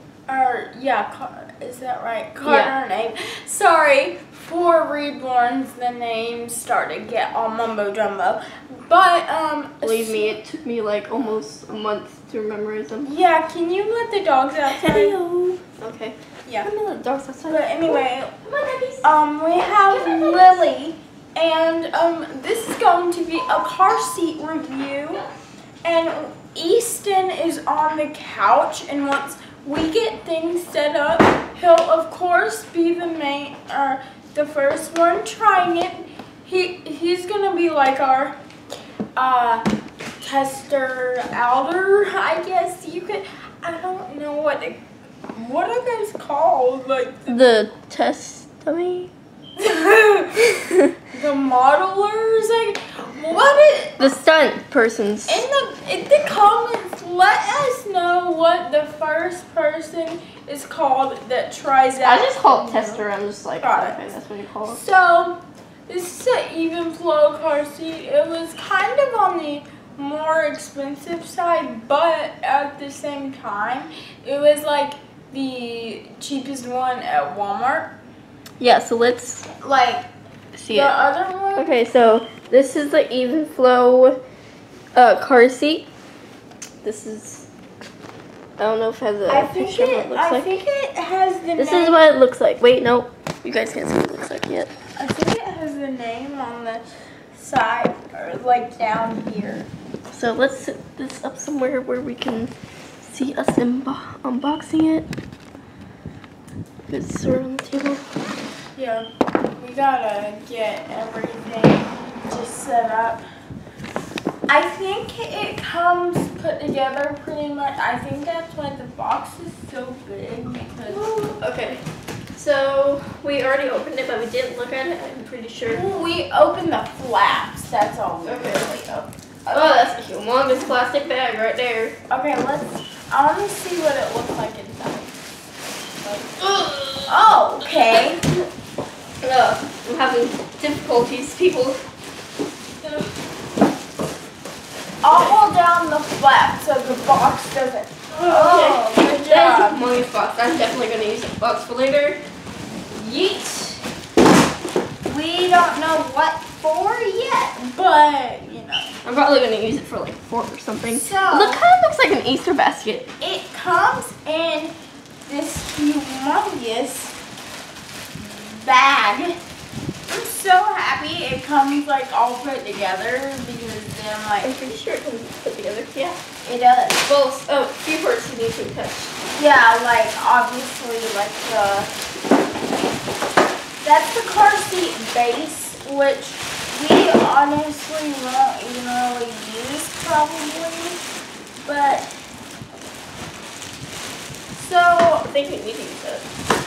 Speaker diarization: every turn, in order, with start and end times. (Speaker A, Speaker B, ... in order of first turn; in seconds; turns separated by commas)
Speaker A: 0.3-10.4, Speaker B: 2.4-2.7, Speaker B: 9.8-13.1, Speaker A: 13.0-15.2, Speaker B: 14.7-20.7, Speaker A: 17.5-18.3, Speaker A: 19.0-25.2, Speaker A: 25.8-38.4, Speaker A: 39.2-39.7, Speaker A: 40.2-44.8, Speaker A: 45.3-47.4, Speaker B: 47.3-49.1, Speaker A: 49.6-50.6, Speaker B: 50.6-50.9, Speaker A: 51.1-54.1, Speaker B: 54.0-55.4, Speaker A: 55.3-63.0, Speaker B: 62.0-64.8, Speaker A: 63.6-64.1, Speaker A: 64.7-77.9, Speaker B: 78.6-79.5, Speaker A: 79.6-80.1, Speaker B: 80.5-81.0, Speaker A: 80.7-81.8, Speaker B: 81.6-84.2, Speaker B: 85.0-85.9, Speaker B: 86.8-87.5, Speaker B: 88.6-90.5, Speaker A: 89.3-92.0, Speaker B: 91.6-94.7, Speaker A: 95.0-99.7, Speaker B: 100.1-102.5, Speaker B: 103.0-105.1, Speaker B: 106.9-108.1, Speaker A: 108.8-113.3, Speaker A: 114.5-121.1, Speaker B: 120.9-121.8, Speaker B: 122.3-126.1, Speaker A: 125.7-130.1, Speaker B: 128.2-132.0, Speaker A: 132.1-135.2, Speaker B: 136.4-138.2, Speaker A: 137.1-138.2, Speaker B: 139.2-141.8, Speaker B: 142.8-143.1, Speaker A: 145.0-149.8, Speaker B: 145.1-145.4, Speaker B: 148.2-152.2, Speaker A: 152.9-153.8, Speaker A: 155.1-158.9, Speaker B: 159.0-163.1, Speaker A: 160.9-161.6, Speaker A: 163.2-164.7, Speaker A: 165.3-167.2, Speaker A: 168.2-169.4, Speaker A: 170.1-174.5, Speaker B: 174.4-176.2, Speaker A: 176.4-177.1, Speaker B: 177.1-179.2, Speaker A: 179.3-181.9, Speaker A: 183.8-191.0, Speaker A: 191.6-192.1, Speaker A: 194.6-195.3, Speaker B: 195.3-196.2